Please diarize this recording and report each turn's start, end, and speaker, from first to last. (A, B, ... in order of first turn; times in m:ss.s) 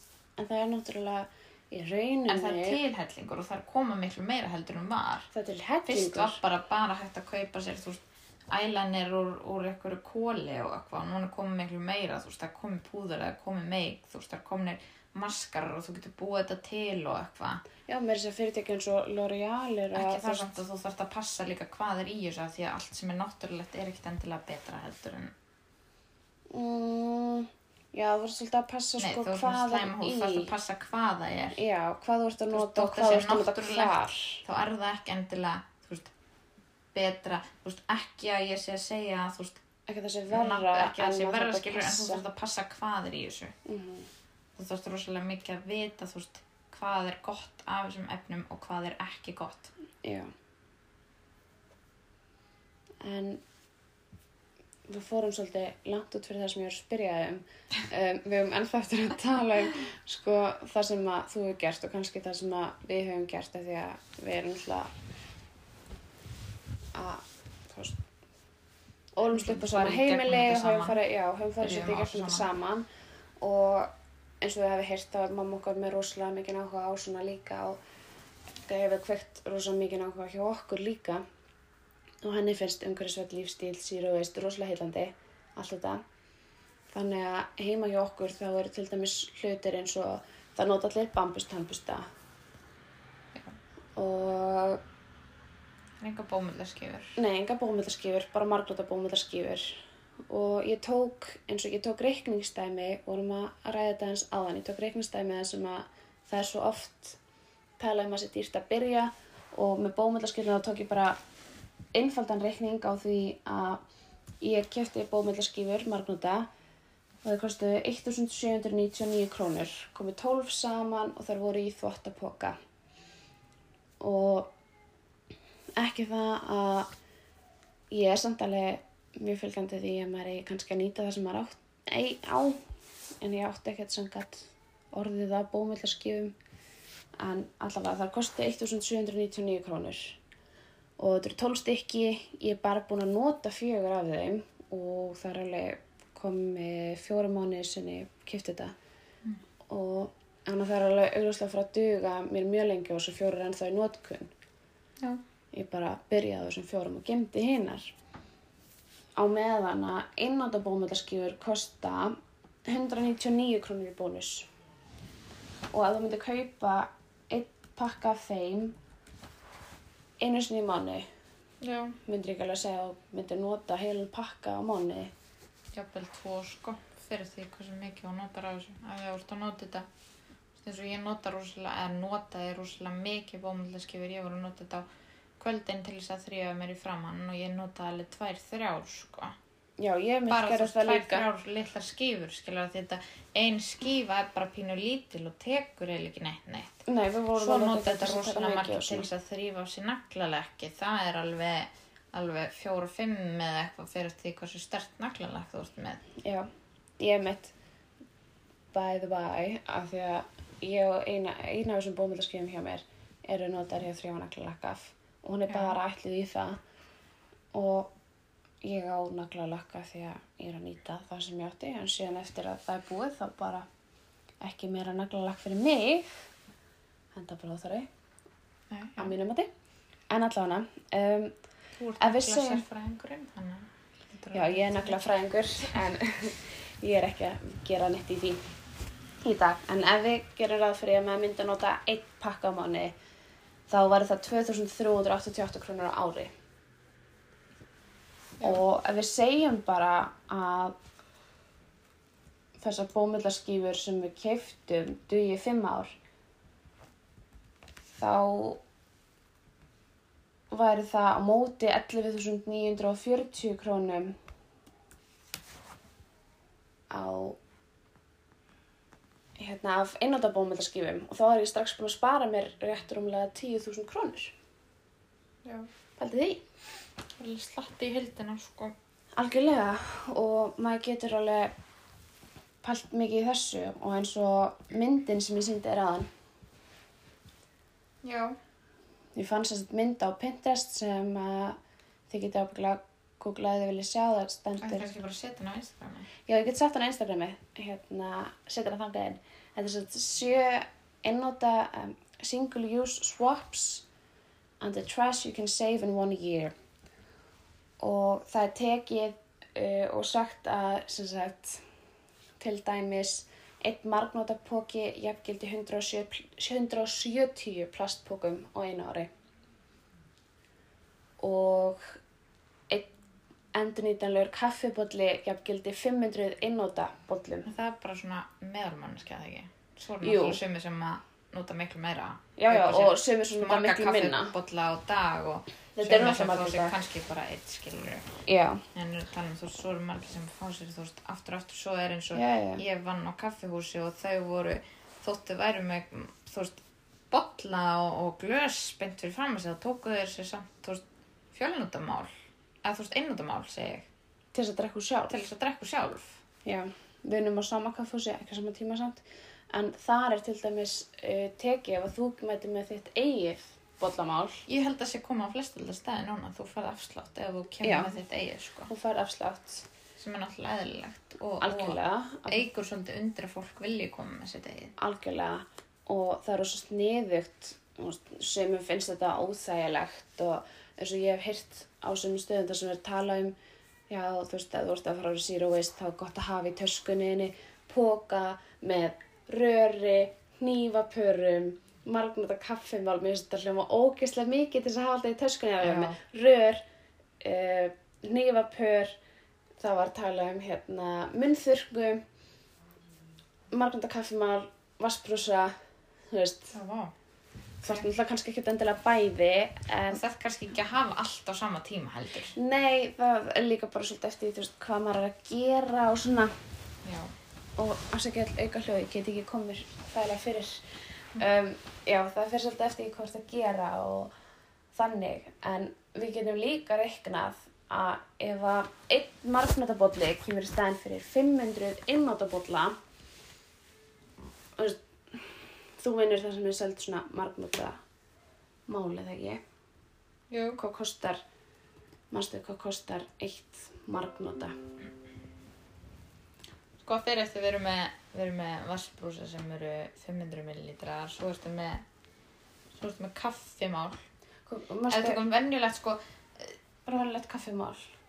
0:00.4-0:02.8 A
0:02.3-0:05.3 B
0:05.3-0:06.4 A
0:05.9-0:17.6 B
0:17.9-0:20.5 A
0:19.9-0:25.3 B
0:26.5-0:30.5 A
0:29.0-0:31.6 B
0:31.5-0:34.4 A
0:32.5-0:36.1 B
0:36.9-0:39.6 B
0:39.9-0:42.2 A
0:40.3-0:43.5 B
0:43.6-0:44.1 A
0:44.6-0:49.7 B
0:50.0-0:50.3 A
0:53.0-0:53.4 A
0:54.9-1:04.9 A
1:06.9-1:08.0 A
1:09.1-1:12.8 A
1:09.3-1:11.0 B
1:11.6-1:12.5 B
1:13.4-1:17.8 A
1:18.6-1:21.2 A
1:22.2-1:26.0 A
1:26.9-1:32.1 A
1:34.0-1:34.8 A
1:36.0-1:37.2 B
1:37.2-1:47.2 A
1:47.8-1:51.2 A
1:51.9-1:53.8 A
1:54.4-1:56.5 A
1:57.2-2:02.6 A
2:04.0-2:04.5 A
2:05.8-2:06.9 A
2:07.9-2:12.6 A
2:13.2-2:16.3 A
2:17.2-2:20.2 A
2:21.0-2:28.8 A
2:29.7-2:34.3 A
2:35.5-2:37.9 A
2:39.2-2:44.5 A
2:45.7-2:48.8 A
2:50.2-2:51.1 A
2:51.6-2:52.0 B
2:52.0-2:55.1 A
2:55.7-2:59.8 B
3:00.6-3:04.8 B
3:05.4-3:09.3 B
3:09.8-3:11.2 A
3:10.3-3:16.8 B
3:16.8-3:19.1 A
3:17.4-3:26.0 B
3:26.2-3:26.5 A
3:27.0-3:27.5 A
3:28.7-3:36.6 A
3:35.5-3:35.8 B
3:37.5-3:37.9 A
3:38.6-3:43.7 A
3:44.4-3:46.3 A
3:47.1-3:47.9 A
3:48.7-3:49.1 B
3:49.0-3:49.5 A
3:50.1-3:51.3 A
3:51.8-3:55.1 B
3:52.0-3:52.6 A
3:54.3-3:58.4 A
3:59.2-4:02.9 A
4:03.7-4:06.3 A
4:08.4-4:10.8 A
4:12.6-4:16.0 A
4:18.0-4:18.6 A
4:20.5-4:24.2 A
4:26.9-4:27.4 A
4:29.4-4:34.3 A
4:35.4-4:35.7 B
4:36.0-4:36.4 A
4:37.1-4:38.7 B
4:39.2-4:41.5 A
4:42.6-4:46.1 A
4:48.0-4:48.4 B
4:49.1-4:51.6 A
4:52.1-4:54.9 A
4:54.6-4:56.1 B
4:56.2-5:03.8 A
5:04.6-5:06.5 A
5:07.8-5:11.6 A
5:12.4-5:19.1 A
5:21.2-5:22.0 A
5:23.5-5:27.5 A
5:27.4-5:38.1 B
5:30.0-5:30.4 A
5:32.4-5:34.3 A
5:35.8-5:36.7 A
5:38.2-5:38.6 A
5:38.7-5:52.1 B
5:42.1-5:42.6 A
5:52.6-5:53.9 B
5:54.3-5:55.2 A
5:55.1-5:56.2 B
5:56.4-6:04.4 A
6:04.5-6:08.7 B
6:07.6-6:07.9 A
6:08.7-6:09.6 A
6:10.0-6:14.7 B
6:11.4-6:12.4 A
6:14.8-6:23.3 A
6:23.9-6:36.6 A
6:35.6-6:36.0 B
6:37.2-6:39.0 A
6:39.6-6:42.0 A
6:43.5-6:45.6 A
6:46.1-6:46.5 A
6:46.5-6:46.9 B
6:47.6-6:50.0 A
6:49.9-6:52.3 B
6:52.3-6:56.3 A
6:56.8-6:57.1 B
6:57.6-7:04.1 A
7:04.7-7:12.8 A
7:14.6-7:17.8 A
7:18.7-7:19.4 A
7:20.3-7:20.6 B
7:20.6-7:21.2 A
7:22.1-7:24.6 A
7:26.8-7:31.8 B
7:32.7-7:34.0 B
7:34.5-7:35.2 A
7:34.9-7:36.6 B
7:36.8-7:37.9 A